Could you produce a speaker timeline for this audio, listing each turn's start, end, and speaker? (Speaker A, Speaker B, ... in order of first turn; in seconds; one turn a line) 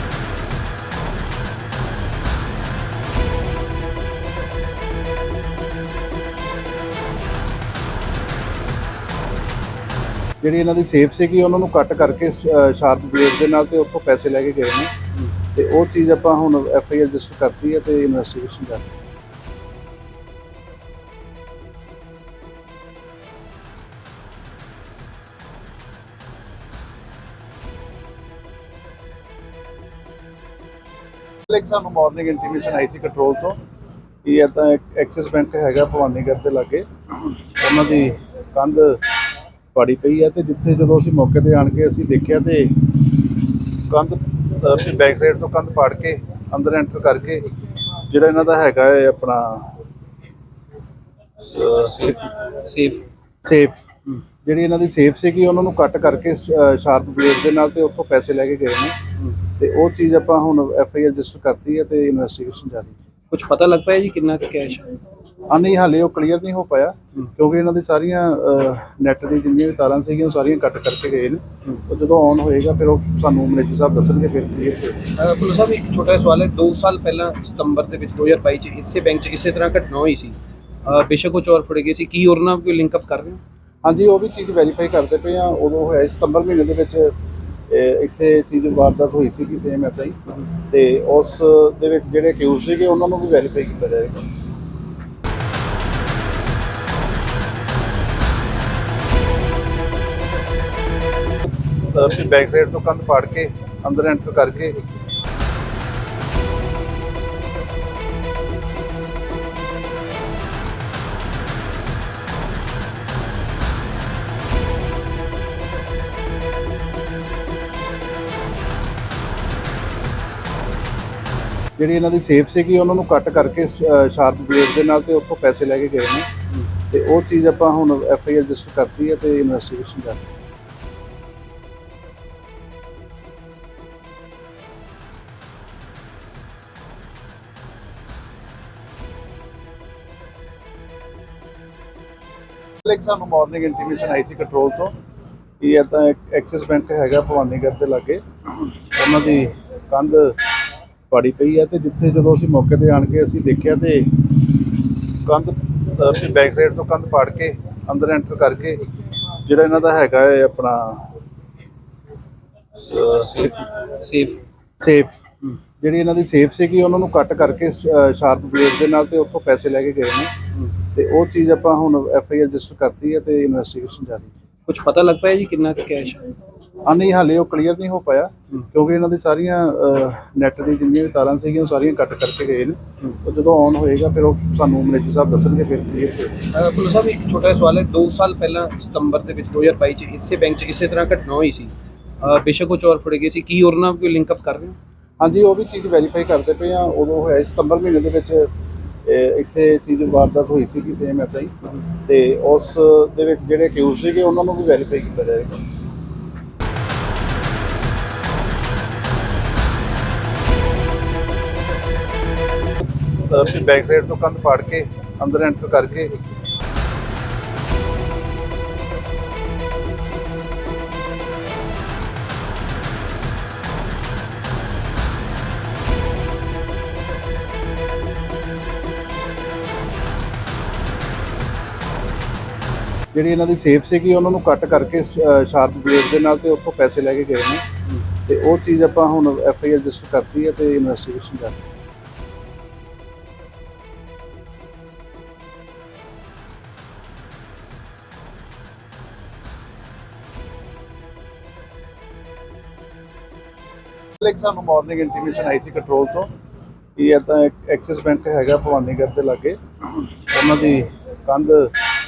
Speaker A: 10.4-14.9
Speaker A: 15.5-18.9
Speaker A: 31.5-33.6
Speaker A: 34.2-39.0
Speaker A: 39.7-42.7
Speaker A: 43.9-47.5
Speaker A: 48.1-49.8
Speaker B: 51.5-53.1
Speaker A: 53.4-53.9
Speaker A: 54.4-59.0
Speaker A: 59.6-63.0
Speaker B: 63.3-64.9
Speaker A: 65.5-75.0
Speaker B: 75.2-83.4
Speaker A: 83.8-87.1
Speaker A: 87.7-94.2
Speaker A: 101.9-104.8
Speaker A: 121.8-126.3
Speaker A: 126.9-130.2
Speaker A: 142.8-144.9
Speaker A: 145.6-150.3
Speaker A: 151.1-154.1
Speaker A: 155.2-158.8
Speaker A: 159.4-161.1
Speaker B: 162.9-164.4
Speaker A: 164.8-165.2
Speaker A: 165.8-170.3
Speaker A: 170.9-174.3
Speaker B: 174.7-176.2
Speaker A: 176.9-186.3
Speaker B: 186.5-194.8
Speaker A: 195.2-198.5
Speaker A: 199.0-205.6
Speaker A: 213.3-216.2
Speaker A: 233.1-237.6
Speaker A: 238.2-241.6
Speaker A: 254.2-256.3
Speaker A: 257.0-261.7